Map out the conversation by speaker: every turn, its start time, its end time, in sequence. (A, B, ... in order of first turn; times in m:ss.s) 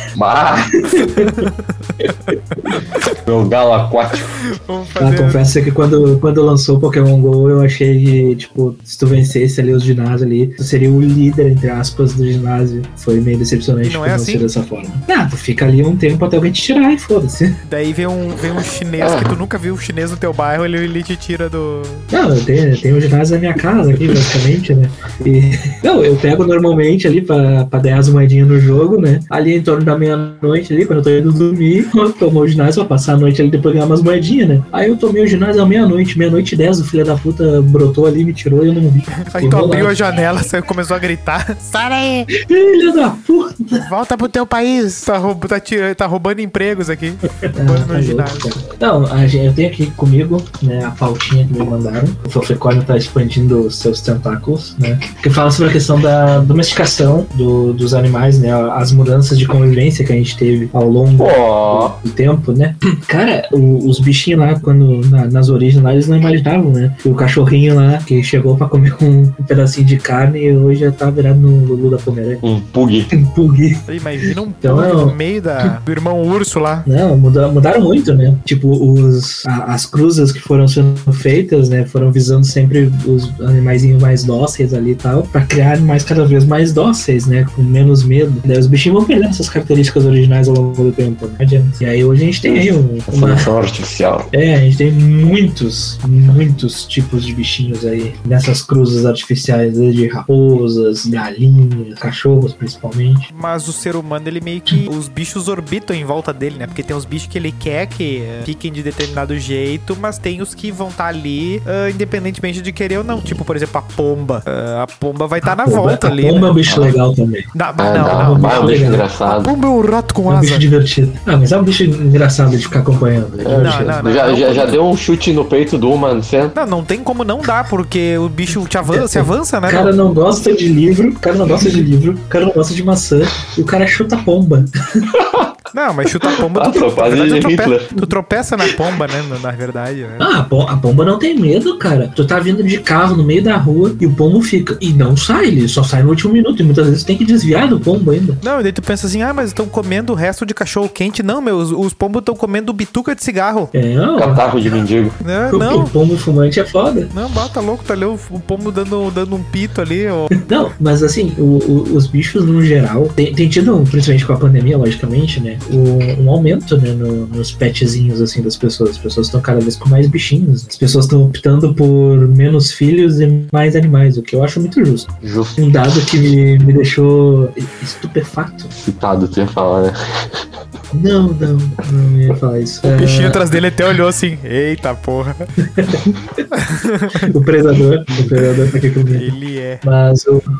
0:00.1-0:00.8 A
0:00.9-0:01.4 B
0:01.0-0:03.0 C
0:03.2-0:04.4 A
0:04.3-0:05.4 C
0:05.0-0:17.6 B
0:13.8-0:14.4 C
0:17.6-0:22.1 C
0:19.0-0:19.4 A
0:22.1-0:40.0 B
0:39.2-0:42.3 C
0:42.3-0:43.9 B
0:43.8-0:48.5 C
0:47.5-1:12.4 B
1:01.2-1:02.0 A
1:12.4-1:13.1 A
1:13.1-1:15.8 B
1:13.9-1:16.8 C
1:16.8-1:33.5 B
1:32.4-1:34.3 A
1:34.3-1:43.3 B
1:43.3-1:56.6 C
1:55.4-1:57.5 B
1:57.5-2:00.6 C
1:57.8-1:59.5 A
1:58.4-1:59.0 B
2:00.3-2:04.0 B
2:03.4-2:06.5 A
2:03.5-2:04.8 C
2:06.5-2:09.9 C
2:08.9-2:15.1 B
2:15.1-2:15.6 A
2:15.7-2:20.3 C
2:16.5-2:17.9 A
2:20.2-2:28.4 B
2:28.4-2:33.7 C
2:33.7-2:34.4 B
2:34.2-2:35.2 A
2:35.2-2:35.9 C
2:35.5-2:37.1 B
2:37.1-2:40.4 C
2:40.4-2:58.7 B
2:55.2-2:55.6 A
2:58.7-3:00.4 A
3:00.9-3:03.6 B
3:02.8-3:05.4 C
3:05.6-3:06.4 B
3:06.5-3:07.3 C
3:07.1-3:10.4 B
3:09.1-3:09.8 C